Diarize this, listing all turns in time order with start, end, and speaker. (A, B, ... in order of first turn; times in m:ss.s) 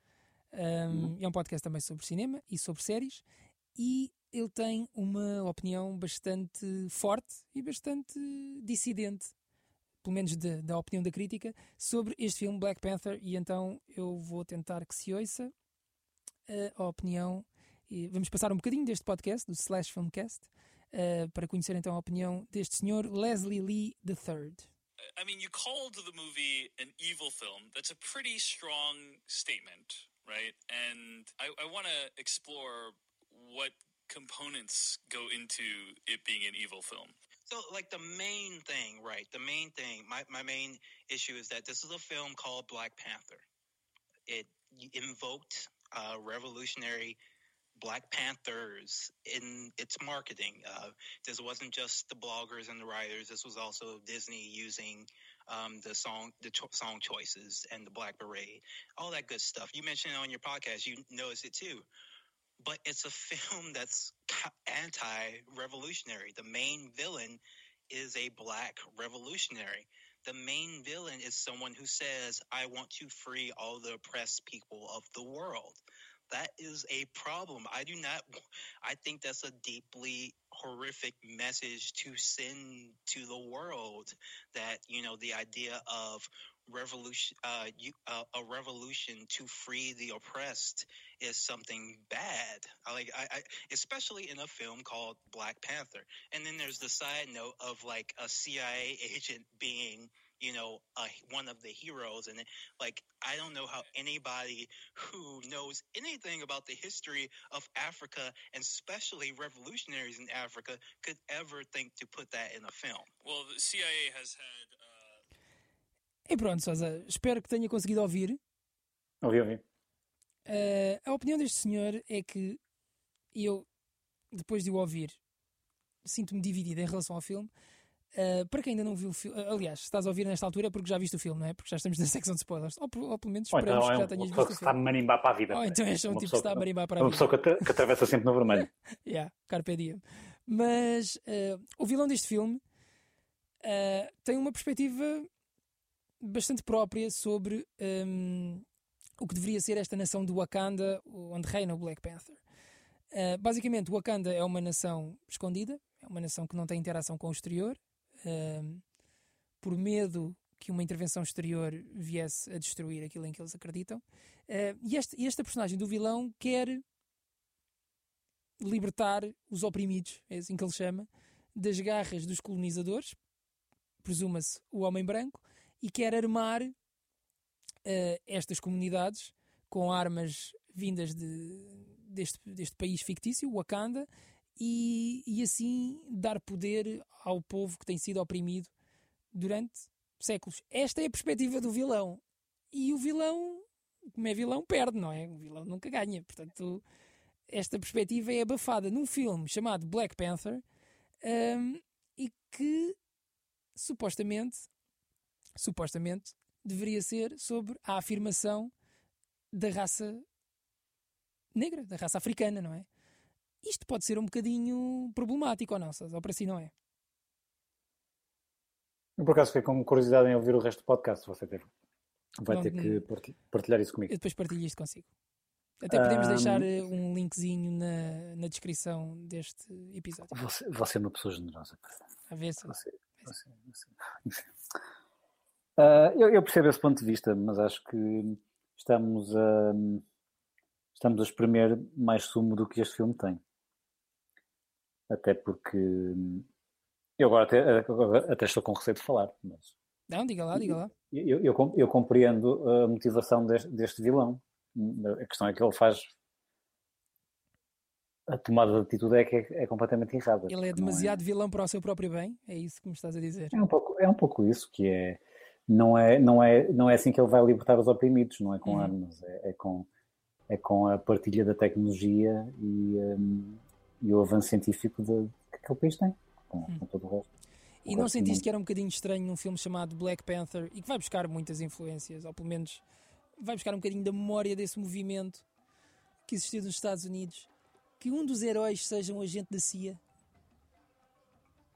0:00.5-0:03.2 A
0:03.8-0:09.3 A
0:10.0-0:15.5 A
0:16.5-0:24.7 A
0:25.2-0:37.2 B
0:37.5-0:43.4 C
0:44.3-0:47.2 C
0:47.8-1:01.9 C
1:02.6-1:18.3 C
1:18.8-1:53.1 C
1:53.2-1:55.2 B
1:56.3-1:58.4 A
1:59.2-1:59.6 D
2:00.5-2:02.6 A
2:03.3-2:03.7 A
2:04.3-2:05.2 A
2:06.0-2:07.5 A
2:08.1-2:14.8 A
2:13.5-2:18.7 D
2:15.5-2:17.8 A
2:18.5-2:22.6 A
2:23.6-2:25.3 A
2:26.2-2:28.6 A
2:29.2-2:32.4 A
2:33.1-2:38.8 A
2:39.6-2:46.8 A
2:48.6-2:53.2 A
2:54.0-2:56.7 A
2:57.8-3:08.7 A
3:09.3-3:16.8 A
3:17.5-3:20.6 A
3:21.2-3:23.0 A
3:23.8-3:24.7 A
3:25.6-3:28.7 A
3:29.5-3:30.2 A
3:31.6-3:32.9 A
3:33.6-3:36.7 A
3:39.2-3:41.7 D
3:42.4-3:44.1 D
3:42.5-3:43.0 A
3:44.1-3:45.1 A
3:45.8-3:50.4 A
3:45.9-3:46.8 D
3:50.3-3:52.0 D
3:52.3-3:52.8 A
3:52.7-3:54.5 D
3:55.8-4:00.0 D
4:01.0-4:03.4 D
4:05.1-4:06.5 D
4:07.2-4:09.7 D
4:10.1-4:10.9 A
4:10.6-4:16.1 D
4:18.3-4:21.2 D
4:20.5-4:23.6 A
4:23.5-4:29.9 D
4:28.7-4:28.9 A
4:30.5-4:37.3 D
4:37.8-4:42.8 A
4:37.9-4:38.4 D
4:43.4-4:45.4 A
4:46.3-4:50.0 A